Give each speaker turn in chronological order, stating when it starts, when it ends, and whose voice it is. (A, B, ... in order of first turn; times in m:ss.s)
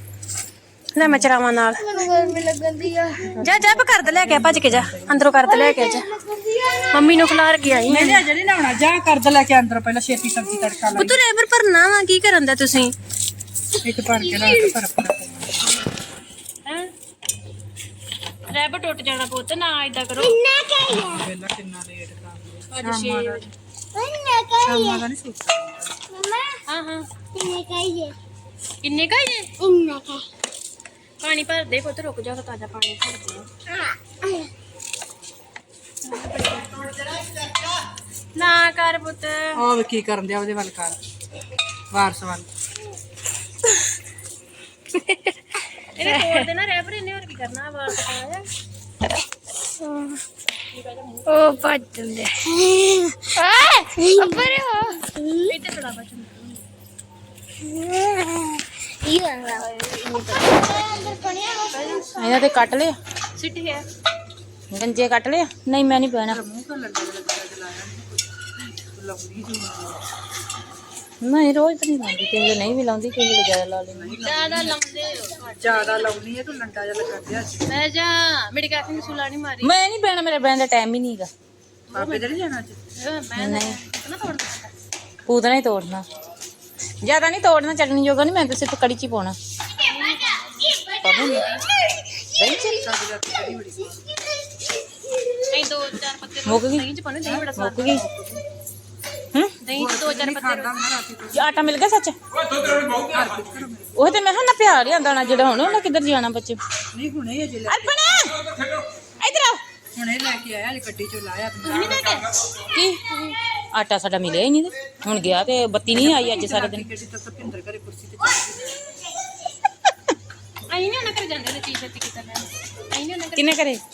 0:00.9-0:01.8 A
0:01.8-0:03.4 B
0:03.4-0:05.3 C
0:03.4-0:06.1 A
0:05.5-0:07.1 B
0:06.9-0:08.2 A
0:07.9-0:11.2 C
0:11.0-0:12.9 A
0:13.8-0:15.8 C
0:14.3-0:14.7 A
0:16.6-0:16.9 A
0:18.5-0:20.4 A
0:20.3-0:21.0 B
0:21.0-0:23.5 C
0:22.7-0:23.4 A
0:24.0-0:25.0 B
0:24.6-0:26.0 C
0:26.1-0:26.6 B
0:26.7-0:27.1 A
0:27.3-0:28.1 B
0:28.8-0:29.6 A
0:29.6-0:30.2 B
0:31.2-0:33.5 A
0:36.0-0:37.2 A
0:38.3-0:39.6 A
0:39.5-0:41.0 C
0:41.9-0:42.5 C
0:44.9-0:45.3 B
0:46.0-0:48.5 A
0:46.0-0:46.4 B
0:49.8-0:50.1 B
0:50.7-0:51.5 A
0:51.3-0:55.4 B
0:55.5-0:56.6 A
0:57.6-1:02.4 B
1:00.5-1:01.2 A
1:01.7-1:02.1 A
1:02.2-1:03.0 D
1:03.4-1:03.8 A
1:04.7-1:06.4 D
1:06.3-1:10.0 C
1:11.2-1:14.2 D
1:14.0-1:14.8 C
1:14.2-1:16.1 A
1:15.6-1:17.7 C
1:17.7-1:19.7 A
1:19.6-1:21.3 D
1:21.9-1:22.4 A
1:21.9-1:22.8 C
1:23.0-1:24.7 A
1:23.4-1:23.8 D
1:25.2-1:26.0 D
1:27.0-1:29.4 D
1:29.8-1:30.8 A
1:31.0-1:31.6 D
1:32.3-1:32.8 D
1:32.7-1:34.2 C
1:35.5-1:38.0 A
1:36.4-1:36.8 D
1:37.2-1:38.4 C
1:37.6-1:38.0 D
1:39.6-1:40.8 A
1:39.7-1:41.5 C
1:41.3-1:42.2 D
1:42.5-1:44.1 C
1:43.9-1:46.6 D
1:46.9-1:48.1 C
1:47.7-1:48.4 D
1:49.2-1:49.6 D
1:49.9-1:52.2 C
1:51.6-1:52.3 A
1:52.7-1:53.0 D
1:53.7-1:56.8 D
1:55.9-1:58.8 C
2:00.7-2:03.6 A
2:03.4-2:03.8 D